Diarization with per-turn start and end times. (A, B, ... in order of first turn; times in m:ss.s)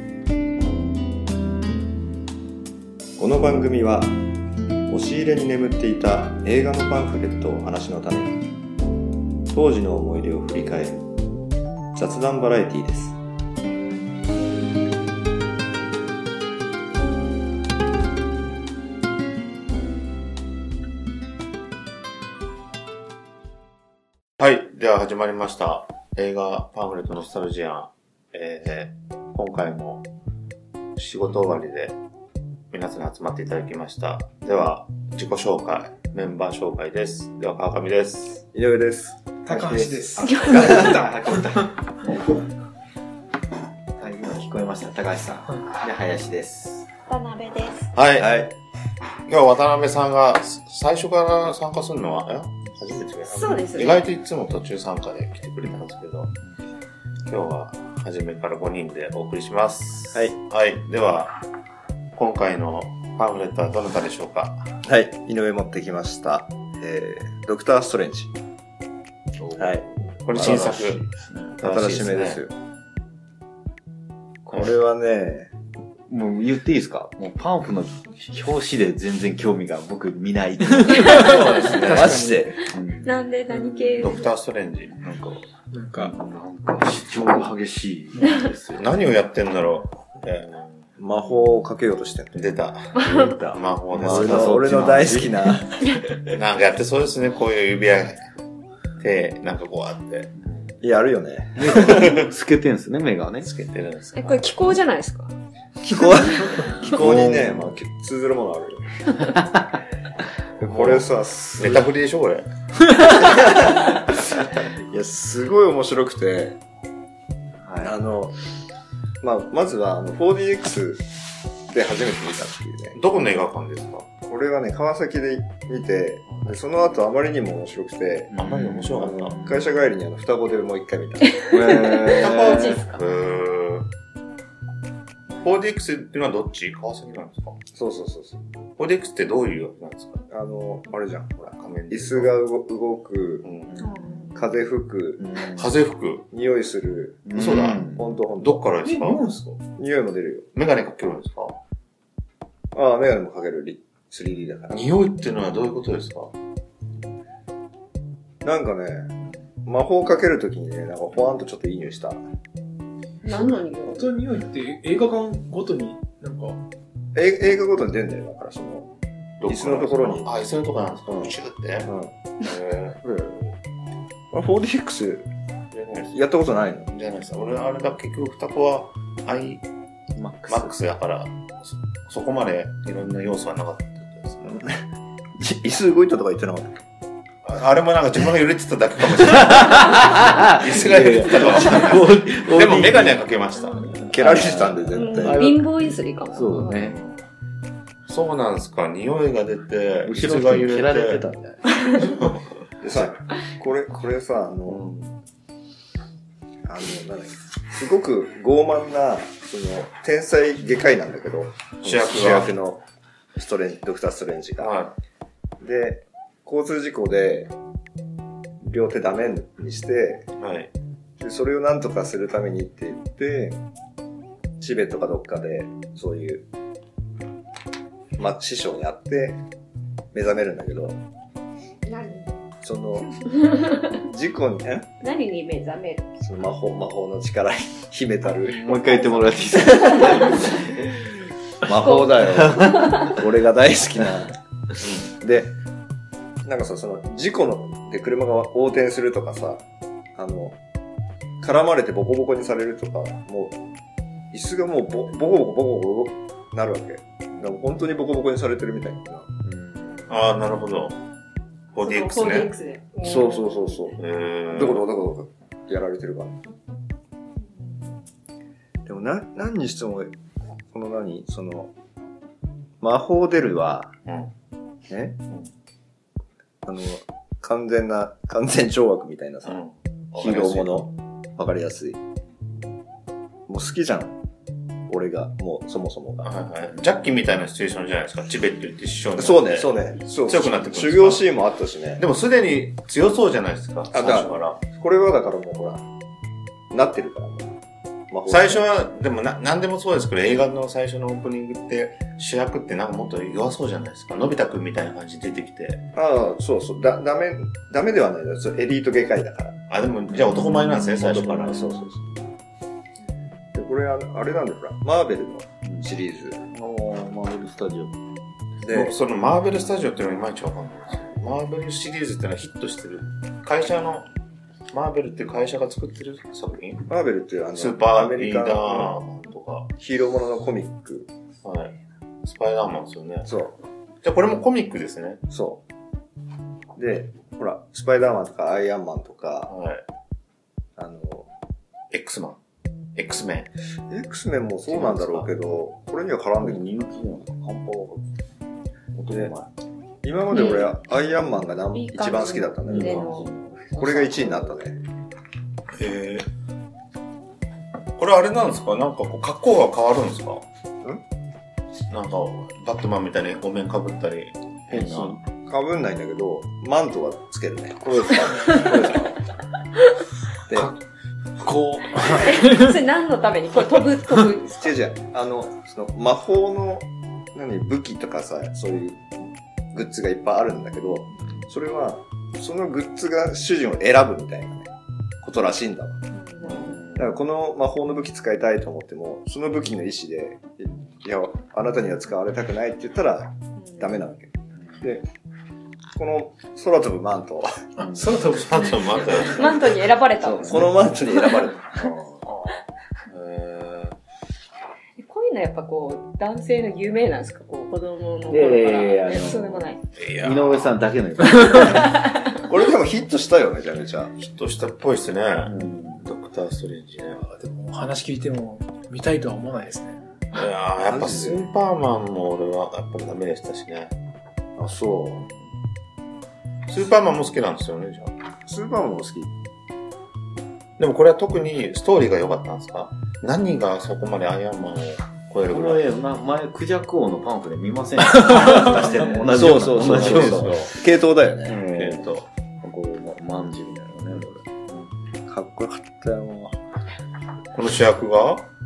0:03.2-0:04.2 A
0:04.9-0:08.4 A
0:09.5-0:11.0 A
0:11.9-0:13.2 A
0:24.4-0:30.0 B
0:31.0-0:32.0 B
0:32.7-0:38.4 B
0:38.5-0:39.6 A
0:39.5-0:41.8 C
0:39.5-0:40.9 D
0:40.2-0:40.6 E
0:40.5-0:41.0 A
0:44.0-0:46.9 C
0:47.1-0:47.9 E
0:48.0-0:48.4 B
0:48.2-0:48.5 A
0:49.3-0:56.3 B
0:53.3-0:54.1 E
0:57.3-1:01.4 B
1:02.2-1:04.7 B
1:04.8-1:08.4 A
1:09.4-1:11.6 C
1:09.6-1:10.8 A
1:10.2-1:11.0 B
1:11.6-1:12.4 B
1:11.6-1:12.6 A
1:14.5-1:15.5 A
1:16.1-1:21.7 C
1:21.1-1:22.2 B
1:21.8-1:22.6 A
1:21.8-1:22.4 D
1:22.7-1:23.1 C
1:23.0-1:24.3 E
1:24.0-1:25.1 B
1:25.0-1:25.4 C
1:25.7-1:26.2 D
1:26.0-1:28.9 C
1:28.8-1:30.8 B
1:31.0-1:32.5 A
1:32.3-1:35.2 B
1:33.0-1:33.3 E
1:33.2-1:35.6 C
1:34.0-1:35.8 A
1:36.3-1:38.2 B
1:39.0-1:40.7 B
1:40.8-1:42.3 A
1:41.6-1:43.5 C
1:43.4-1:44.4 B
1:44.2-1:45.3 E
1:45.8-1:48.8 A
1:46.8-1:47.6 B
1:50.6-1:51.9 A
1:50.6-1:52.5 B
1:53.2-1:56.6 A
1:57.6-1:57.9 C
1:57.8-1:58.4 A
1:59.2-2:01.0 A
2:01.7-2:03.0 A
2:03.0-2:04.1 B
2:04.3-2:08.3 A
2:08.3-2:09.7 C
2:08.4-2:09.4 B
2:08.9-2:12.6 A
2:11.5-2:13.0 E
2:11.8-2:12.1 C
2:12.1-2:13.9 B
2:15.4-2:17.6 B
2:17.7-2:18.4 A
2:18.8-2:20.2 B
2:20.3-2:23.5 A
2:21.6-2:22.3 B
2:23.4-2:23.7 B
2:23.8-2:24.4 E
2:24.4-2:25.3 A
2:25.2-2:25.7 C
2:25.6-2:26.3 B
2:26.3-2:28.6 A
2:27.3-2:28.0 C
2:27.3-2:27.8 B
2:28.4-2:29.3 B
2:28.8-2:29.6 C
2:29.8-2:30.5 A
2:30.6-2:31.6 B
2:32.7-2:34.9 A
2:34.7-2:36.3 B
2:38.4-2:39.1 A
2:39.6-2:42.2 A
2:43.2-2:44.1 E
2:43.3-2:46.6 D
2:47.2-2:48.9 A
2:49.4-2:53.0 B
2:49.5-2:50.3 A
2:51.1-2:52.1 A
2:53.0-2:53.3 A
2:54.3-2:55.3 A
2:55.7-2:56.2 B
2:56.1-2:56.9 A
2:56.9-2:59.6 B
3:00.2-3:00.8 C
3:00.5-3:04.6 B
3:04.5-3:04.8 A
3:05.4-3:06.7 A
3:07.4-3:14.4 B
3:09.8-3:13.3 C
3:14.0-3:15.5 A
3:14.1-3:17.0 C
3:14.9-3:16.8 E
3:16.7-3:17.2 B
3:18.1-3:21.2 B
3:20.1-3:21.9 C
3:22.0-3:22.4 B
3:22.8-3:24.8 A
3:24.7-3:25.1 B
3:26.6-3:32.8 A
3:31.8-3:32.5 B
3:33.4-3:34.8 A
3:34.6-3:35.0 B
3:35.6-3:37.5 A
3:38.6-3:40.3 A
3:40.4-3:40.7 B
3:41.2-3:43.6 A
3:44.6-3:46.4 A
3:48.2-3:49.4 A
3:50.1-3:51.0 A
3:51.8-3:52.3 E
3:52.6-3:53.4 A
3:53.9-3:54.9 A
3:55.0-3:56.1 E
3:56.2-3:59.0 A
3:58.5-4:00.5 C
3:59.6-4:00.4 E
4:01.6-4:04.4 A
4:01.8-4:03.1 E
4:02.4-4:03.0 C
4:05.0-4:05.6 A
4:06.4-4:09.6 A
4:10.2-4:10.6 A
4:11.4-4:13.6 A
4:14.3-4:19.3 A
4:19.5-4:20.1 C
4:20.1-4:21.0 B
4:21.7-4:22.5 B
4:21.8-4:23.9 E
4:23.0-4:26.4 A
4:24.0-4:24.8 B
4:28.9-4:30.1 A
4:30.7-4:31.7 A
4:32.8-4:33.9 A
4:34.9-4:35.2 A
4:36.6-4:39.6 A
4:39.5-4:40.8 B
4:40.2-4:42.0 A
4:43.5-4:44.2 A
4:44.9-4:46.3 A
4:46.2-4:51.2 B
4:49.2-4:52.0 A
4:52.0-4:54.6 B
4:53.9-4:55.8 A
4:56.7-4:57.5 A
4:58.1-4:58.7 A
4:58.3-5:05.8 B
5:06.0-5:09.6 A
5:09.7-5:11.8 B
5:11.1-5:12.0 A
5:13.5-5:16.4 A
5:16.5-5:18.0 C
5:18.6-5:19.0 A
5:18.7-5:24.1 B
5:24.7-5:26.9 B
5:26.9-5:29.0 A
5:27.6-5:29.7 B
5:29.8-5:31.1 A
5:31.4-5:33.3 B
5:33.2-5:33.6 A
5:34.0-5:35.2 B
5:35.3-5:35.6 A
5:36.8-5:39.5 A
5:39.5-5:39.8 B
5:40.8-5:41.3 A
5:41.9-5:42.4 B
5:43.0-5:43.5 B
5:43.9-5:46.9 A
5:44.7-5:45.2 C
5:46.4-5:48.0 C
5:48.9-5:49.5 C
5:50.0-5:53.2 A
5:50.3-5:50.7 E
5:51.7-5:53.3 E
5:52.7-5:54.5 C
5:53.8-5:54.8 A
5:55.8-5:56.3 B
5:58.0-6:00.4 B
6:01.9-6:05.2 B
6:04.7-6:05.2 C
6:05.4-6:09.2 A
6:10.5-6:10.7 A
6:11.4-6:12.8 D
6:12.0-6:14.7 E
6:14.6-6:19.0 A
6:19.7-6:24.7 A
6:25.2-6:26.0 A
6:26.1-6:26.8 E
6:26.4-6:27.0 B
6:27.0-6:35.1 A
6:36.0-6:37.6 A
6:37.8-6:38.4 C
6:38.0-6:38.4 D
6:38.2-6:39.7 B
6:39.2-6:41.4 E
6:40.2-6:42.0 A
6:43.1-6:44.0 B
6:45.0-6:49.8 E
6:48.3-6:52.0 C
6:50.0-6:50.7 B
6:51.6-6:52.1 E
6:52.4-6:54.1 A
6:54.2-6:57.2 B
6:55.4-6:56.1 C
6:57.2-7:00.0 D
7:00.3-7:03.9 B
7:00.8-7:01.5 A
7:04.6-7:05.3 A
7:06.7-7:08.1 B
7:08.5-7:09.3 A
7:10.8-7:15.8 B
7:15.5-7:20.8 C
7:18.8-7:21.6 A
7:19.4-7:20.7 B
7:21.5-7:22.1 C
7:21.6-7:22.3 B
7:22.6-7:24.9 C
7:25.3-7:26.6 A
7:27.5-7:28.5 B